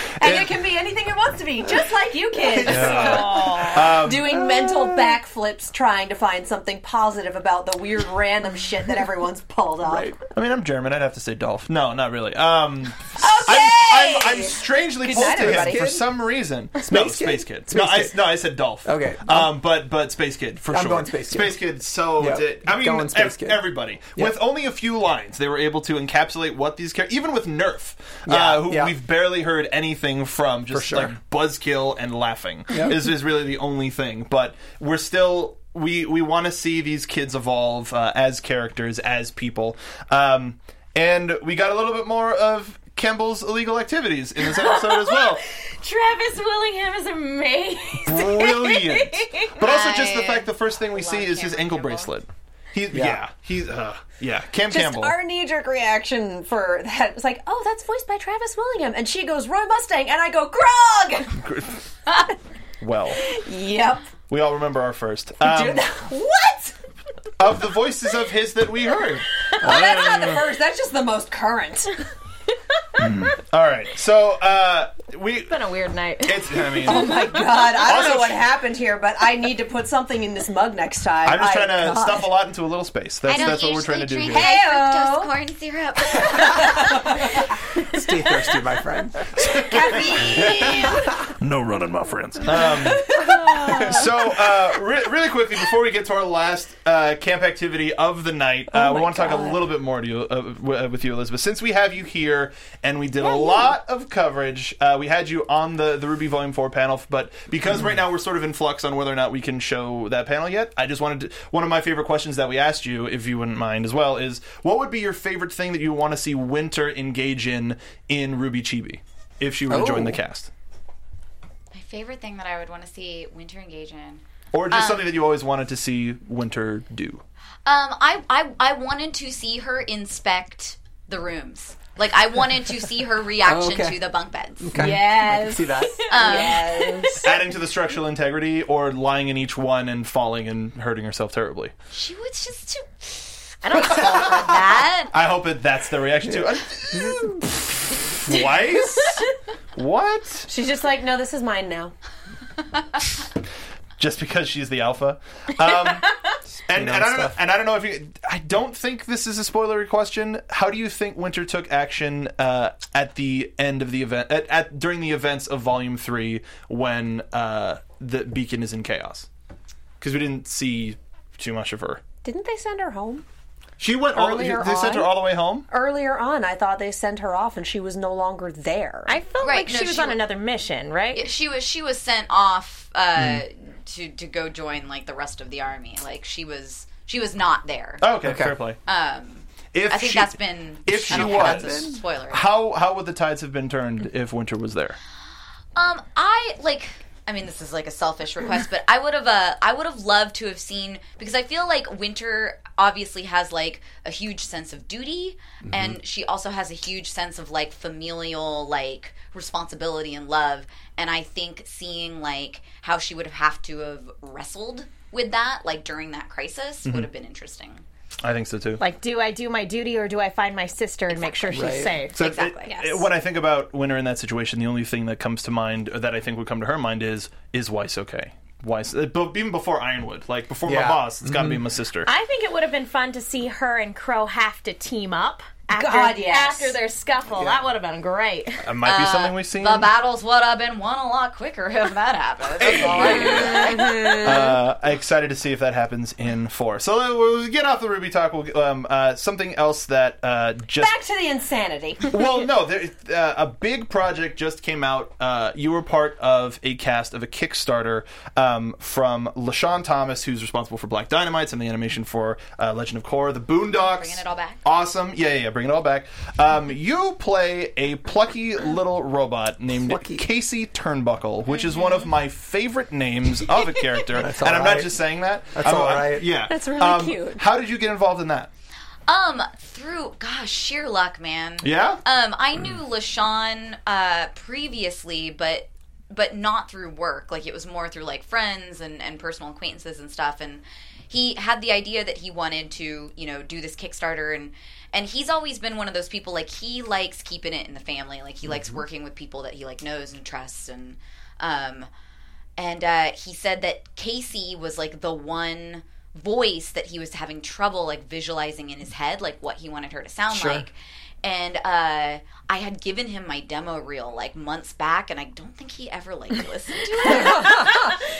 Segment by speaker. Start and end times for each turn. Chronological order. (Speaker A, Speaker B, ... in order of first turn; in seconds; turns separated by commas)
Speaker A: 0.2-10.1, Speaker B: 0.2-0.6, Speaker B: 2.6-4.3, Speaker C: 2.6-5.1, Speaker D: 2.8-3.8, Speaker C: 9.8-10.2, Speaker B: 10.3-45.4, Speaker A: 13.2-16.0, Speaker C: 15.2-16.1, Speaker C: 16.8-19.6, Speaker C: 20.7-21.6, Speaker C: 22.2-24.4, Speaker C: 28.3-28.9, Speaker C: 30.7-31.1, Speaker C: 32.7-33.0, Speaker D: 44.4-49.6, Speaker B: 48.0-55.2, Speaker E: 49.6-52.1, Speaker C: 52.9-53.2, Speaker A: 54.7-61.4, Speaker B: 61.4-61.8, Speaker B: 62.8-63.2, Speaker A: 63.2-64.1, Speaker B: 64.3-65.9, Speaker A: 65.4-66.7, Speaker B: 67.4-70.4, Speaker A: 69.6-72.0, Speaker B: 73.0-75.6, Speaker D: 75.5-77.2, Speaker B: 76.2-77.3, Speaker A: 76.8-82.3, Speaker B: 77.8-78.4, Speaker B: 81.2-84.5, Speaker E: 83.3-87.0, Speaker A: 84.3-85.3, Speaker A: 86.2-87.3, Speaker C: 87.8-89.6, Speaker B: 89.4-90.4, Speaker A: 89.5-91.2, Speaker C: 90.2-91.2, Speaker B: 91.4-120.5, Speaker A: 93.1-93.8, Speaker C: 93.1-94.1, Speaker A: 98.7-99.6, Speaker C: 119.7-120.2, Speaker E: 121.7-125.1, Speaker B: 124.5-127.2, Speaker E: 127.7-135.0, Speaker C: 133.4-134.0, Speaker C: 134.6-136.2, Speaker A: 134.7-137.3, Speaker E: 136.1-137.1, Speaker D: 136.2-137.2, Speaker B: 137.2-141.7, Speaker E: 141.9-145.1, Speaker D: 143.6-144.5, Speaker B: 145.1-150.5, Speaker C: 146.3-147.4, Speaker A: 150.5-151.9, Speaker B: 154.0-156.1, Speaker B: 156.7-169.3, Speaker C: 156.7-157.4, Speaker B: 170.0-172.0, Speaker A: 172.2-173.2, Speaker B: 173.8-175.7, Speaker A: 174.1-175.2, Speaker A: 175.7-179.2, Speaker D: 179.1-181.3, Speaker E: 179.4-180.2, Speaker E: 181.1-188.0, Speaker B: 188.0-188.8, Speaker C: 188.2-188.6, Speaker E: 188.9-192.5, Speaker B: 189.7-195.0, Speaker C: 191.1-192.0, Speaker E: 195.7-217.8, Speaker C: 205.7-206.0, Speaker B: 218.2-218.8, Speaker D: 218.8-223.0, Speaker E: 221.1-222.7, Speaker C: 221.5-221.9, Speaker B: 222.1-232.1, Speaker C: 230.7-231.6, Speaker D: 232.1-238.6, Speaker A: 235.7-236.7, Speaker C: 237.3-237.6, Speaker B: 238.6-239.9, Speaker E: 238.8-244.4, Speaker B: 242.6-250.9, Speaker A: 243.1-244.5, Speaker A: 250.8-252.2, Speaker B: 252.1-278.5, Speaker E: 263.7-264.6, Speaker C: 269.9-270.2, Speaker E: 271.7-272.0, Speaker C: 274.1-276.4, Speaker A: 276.5-277.4, Speaker E: 279.1-301.9, Speaker B: 281.6-282.0, Speaker E: 302.6-318.0, Speaker C: 310.3-310.6, Speaker D: 317.0-318.0